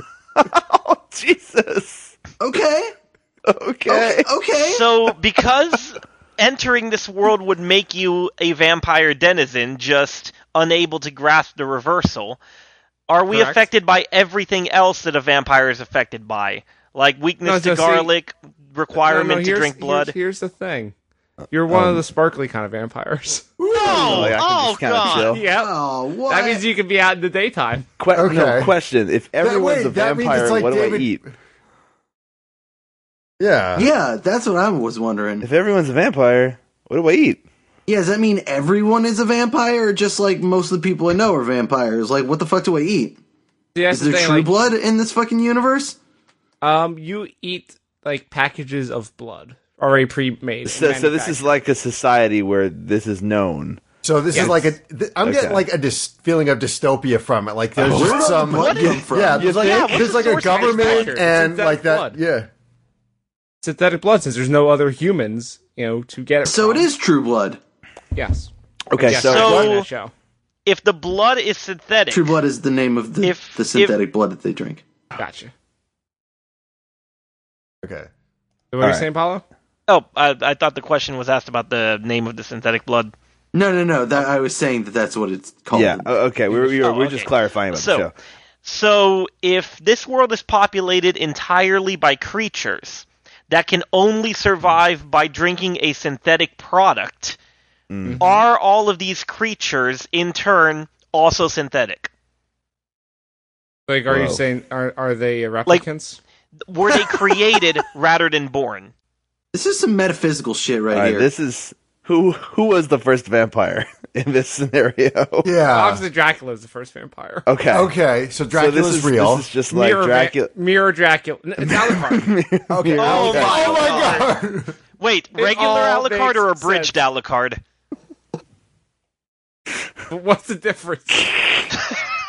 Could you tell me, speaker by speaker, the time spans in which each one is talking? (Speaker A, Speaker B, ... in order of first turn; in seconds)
Speaker A: 0.3-2.2, 3.5-4.3, 21.7-22.0, 23.9-25.4, 28.0-31.2, 35.4-37.4, 50.6-53.8, 54.3-54.7, 55.2-55.6, 57.8-58.7, 59.4-59.9, 68.9-69.7, 78.8-79.0, 85.7-88.1, 97.9-98.2, 104.1-104.4, 110.9-115.5, 117.5-117.9, 118.5-120.5, 121.6-124.0, 131.3-131.7
Speaker B: 2.4-2.9, 3.9-4.8, 25.4-26.6, 33.7-35.5, 37.9-43.2, 43.9-46.0, 57.9-59.9, 66.4-67.6, 72.1-74.8, 83.5-86.1, 109.5-111.3
Speaker C: 4.6-12.4, 13.1-20.1, 23.7-25.4, 58.4-61.2, 69.1-69.9, 70.7-72.3, 73.2-74.0, 79.9-83.1, 86.8-88.1, 88.6-97.4, 98.2-102.1, 106.7-108.9, 122.9-124.3, 125.0-127.6
Speaker D: 13.3-13.6, 17.4-18.1, 19.0-20.9, 21.5-23.4, 25.3-25.7, 26.2-27.9, 43.7-44.5, 46.6-51.4, 54.3-54.7, 60.2-62.2, 63.6-66.9, 68.1-70.1, 75.2-75.5, 78.7-79.4, 98.0-98.4, 103.9-106.2, 115.7-117.5, 119.7-122.3, 123.5-124.2, 125.3-126.9, 130.1-131.3
Speaker E: 23.6-24.4, 28.1-28.7, 29.4-31.2, 33.4-33.9, 54.0-62.5, 77.8-78.1, 115.4-116.0, 117.7-119.5, 122.7-124.8